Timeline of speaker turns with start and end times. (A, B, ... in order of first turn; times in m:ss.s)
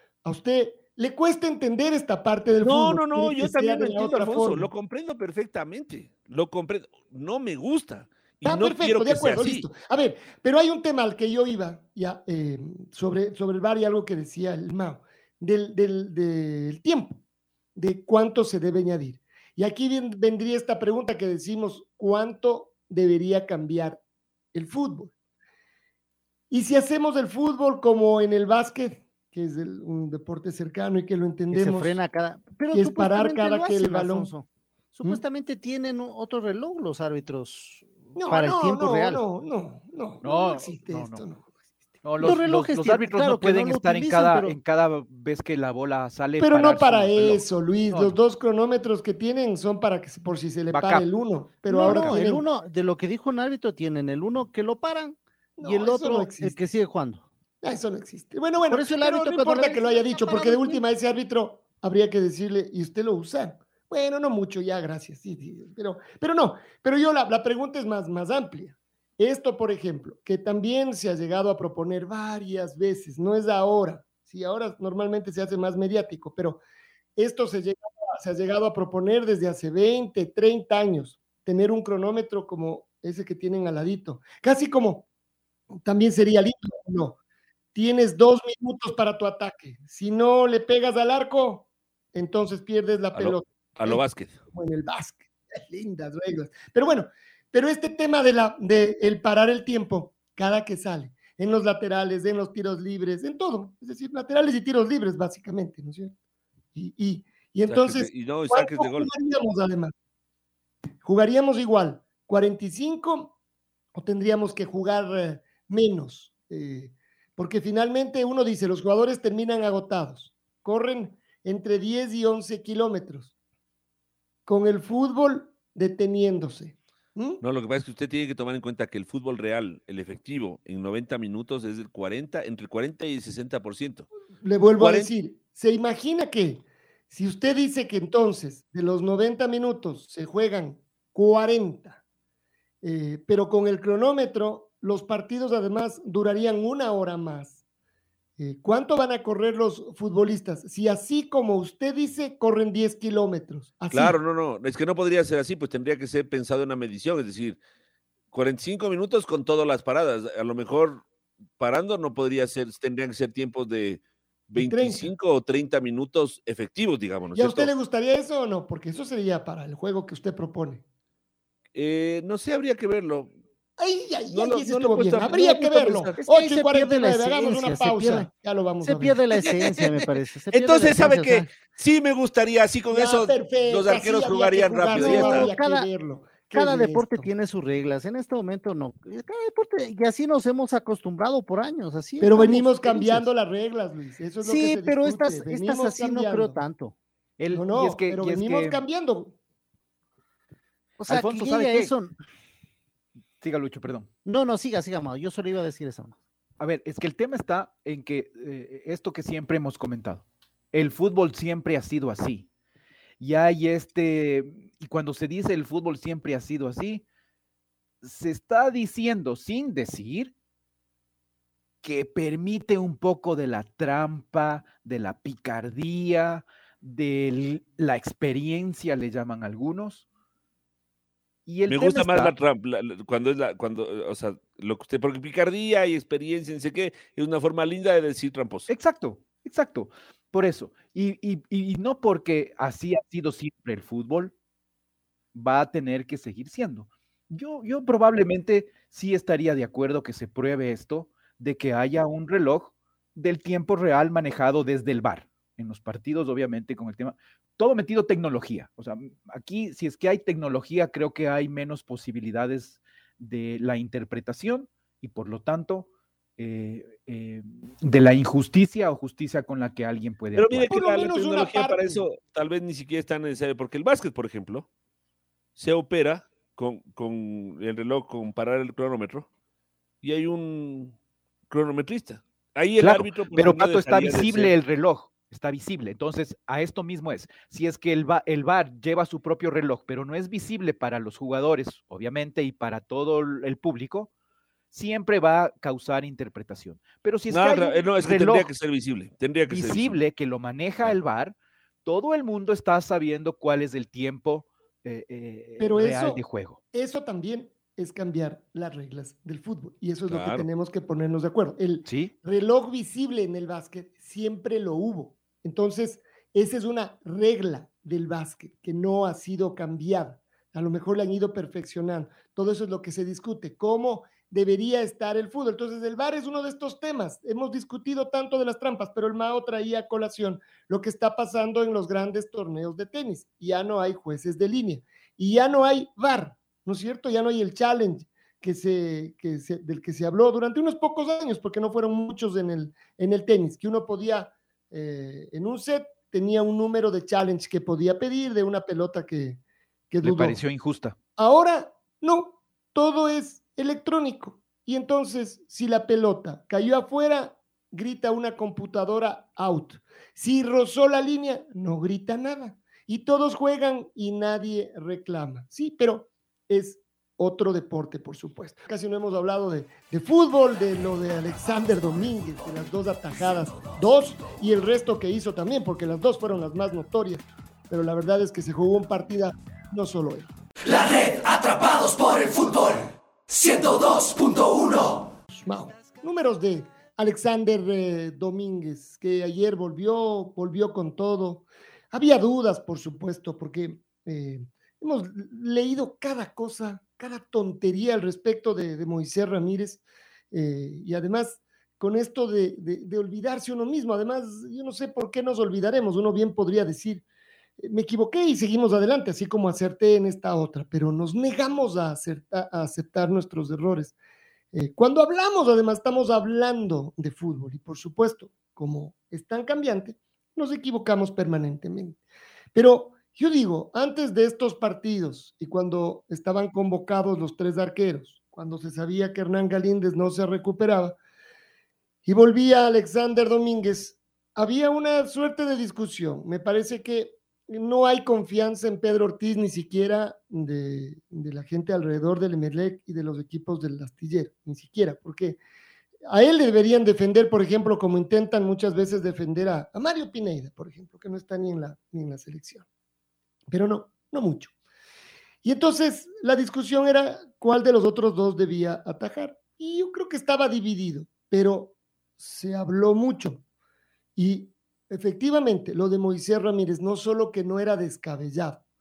0:00.2-0:04.7 A
0:02.6-0:09.7 B
0:08.4-0:17.2 A
0:17.8-0:24.0 A
0:24.5-0:25.1 A
0:26.5-0:32.0 A
0:31.5-0:39.2 C
0:32.7-0:34.3 A
0:38.2-0:41.5 A
0:40.2-0:41.3 D
0:42.0-0:48.2 D
0:42.2-0:44.6 C
0:46.4-0:52.4 A
0:50.7-0:51.1 D
0:51.7-0:57.2 C
0:51.9-0:52.2 D
0:55.6-0:56.6 A
0:57.6-1:16.6 A
0:58.7-1:00.8 C
1:17.2-1:25.1 A
1:25.8-1:27.2 A
1:27.8-1:34.0 A
1:33.2-1:34.4 B
1:34.5-1:46.1 A
1:46.8-1:49.9 A
1:47.7-1:49.1 B
1:51.0-1:53.4 A
1:53.9-2:03.3 A
2:04.5-2:07.4 A
2:07.4-2:14.1 B
2:14.4-2:22.0 A
2:14.8-2:15.1 B
2:22.8-2:27.6 A
2:28.4-2:34.2 A
2:33.9-2:37.6 B
2:38.3-2:41.0 B
2:41.6-2:47.7 B
2:44.6-2:45.1 A
2:47.4-2:50.8 A
2:51.8-2:53.3 B
2:53.8-2:59.2 A
2:54.3-2:56.2 B
2:56.2-2:58.3 C
2:58.8-3:01.5 C
2:59.3-3:05.5 B
3:02.9-3:07.3 A
3:04.9-3:05.9 C
3:06.5-3:13.3 C
3:12.2-3:16.6 A
3:14.4-3:17.0 C
3:17.4-3:18.8 D
3:17.5-3:19.4 A
3:21.0-3:22.2 C
3:21.1-3:21.9 D
3:23.4-3:24.1 D
3:24.2-3:26.2 C
3:26.6-3:32.5 D
3:33.2-3:37.0 D
3:38.0-3:40.3 D
3:41.8-3:50.0 D
3:51.5-3:52.4 D
3:51.7-3:58.7 B
3:58.7-4:04.3 D
4:05.3-4:30.7 D
4:30.4-4:34.7 B
4:30.7-4:32.0 A
4:35.6-4:39.3 B
4:40.0-4:41.0 B
4:41.5-4:44.6 B
4:42.8-4:54.1 D
4:54.7-4:58.5 D
4:57.3-5:00.0 B
4:59.5-5:06.6 D
5:05.6-5:50.4 A
5:10.1-5:10.5 B
5:11.9-5:12.1 D
5:50.0-5:51.0 D
5:51.2-6:20.3 A
6:20.7-6:25.0 E
6:25.4-6:47.0 A
6:47.6-6:54.0 A
6:54.5-7:02.0 A
7:02.6-7:11.0 A
7:12.0-7:25.4 A
7:26.1-7:32.6 A
7:33.5-7:34.5 A
7:35.4-7:43.4 A
7:44.2-7:48.6 A